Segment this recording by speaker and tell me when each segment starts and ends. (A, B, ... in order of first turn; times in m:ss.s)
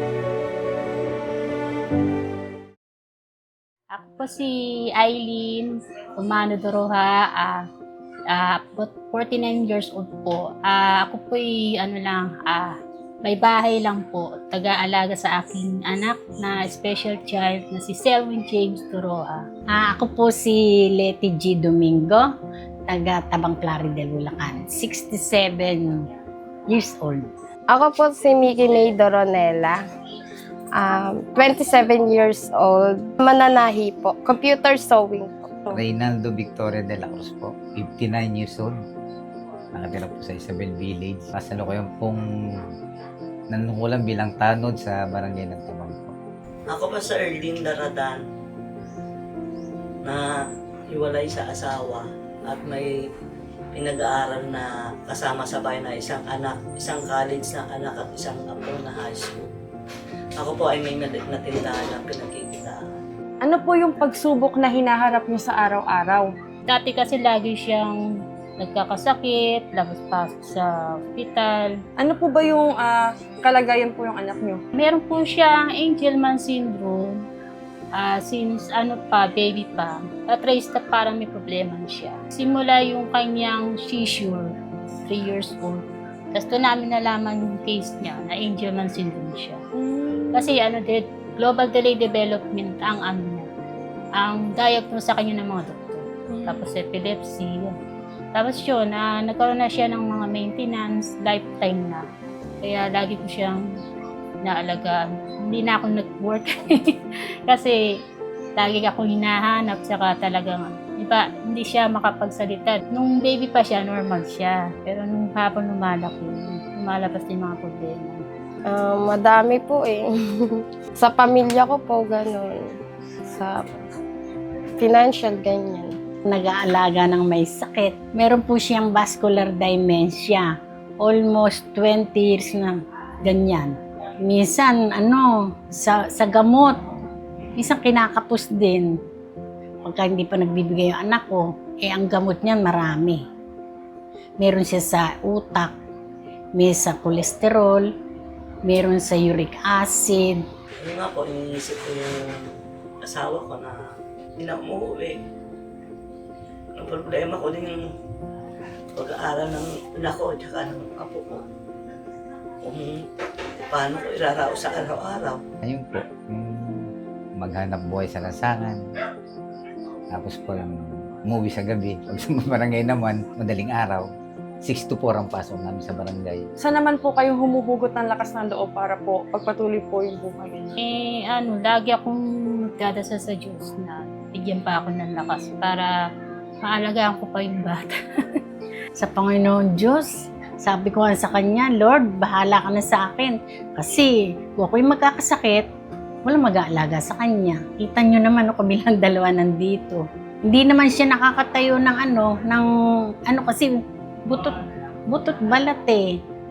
0:03.9-0:07.7 A
0:08.3-0:19.4 A
0:19.7-0:22.2 B
0:22.9-0:26.0 B
0:26.7-0:27.3 B
0:27.7-0:29.8 C
0:30.8-0:35.8 C
0:35.7-0:38.8 D
0:39.7-0:42.2 D
0:43.5-0:46.2 D
0:46.7-0:48.2 E
0:50.9-0:52.9 E
0:53.8-0:59.5 E
1:00.4-1:02.8 E
1:03.4-1:06.3 F
1:06.7-1:08.0 A
1:08.6-1:11.8 A
1:12.0-1:14.6 F
1:14.8-1:17.2 A
1:18.0-1:24.5 A
1:25.0-1:29.6 A
1:29.8-1:30.4 F
1:30.3-1:33.5 A
1:34.2-1:37.8 A
1:36.3-1:36.6 F
1:38.4-1:42.0 A
1:42.6-1:43.6 A
1:44.4-1:47.8 A
1:48.6-1:58.3 A
1:58.7-2:02.7 C
2:03.3-2:03.6 C
2:04.8-2:05.9 C
2:06.3-2:16.8 B
2:17.6-2:19.0 B
2:19.8-2:23.2 B
2:24.4-2:25.7 B
2:26.6-2:27.9 B
2:28.6-2:30.4 B
2:30.8-2:32.4 E
2:33.0-2:33.8 E
2:34.4-2:35.2 E
2:36.8-2:37.8 E
2:39.0-2:41.4 E
2:42.6-2:43.0 E
2:43.7-2:45.4 E
2:45.6-2:48.8 D
2:50.1-2:54.0 D
2:54.6-2:56.4 D
2:56.6-3:00.7 F
3:00.8-3:05.9 A
3:06.6-3:08.4 A
3:09.0-3:10.1 B
3:10.6-3:15.7 B
3:16.2-3:22.7 B
3:23.3-3:24.6 B
3:25.1-3:26.1 B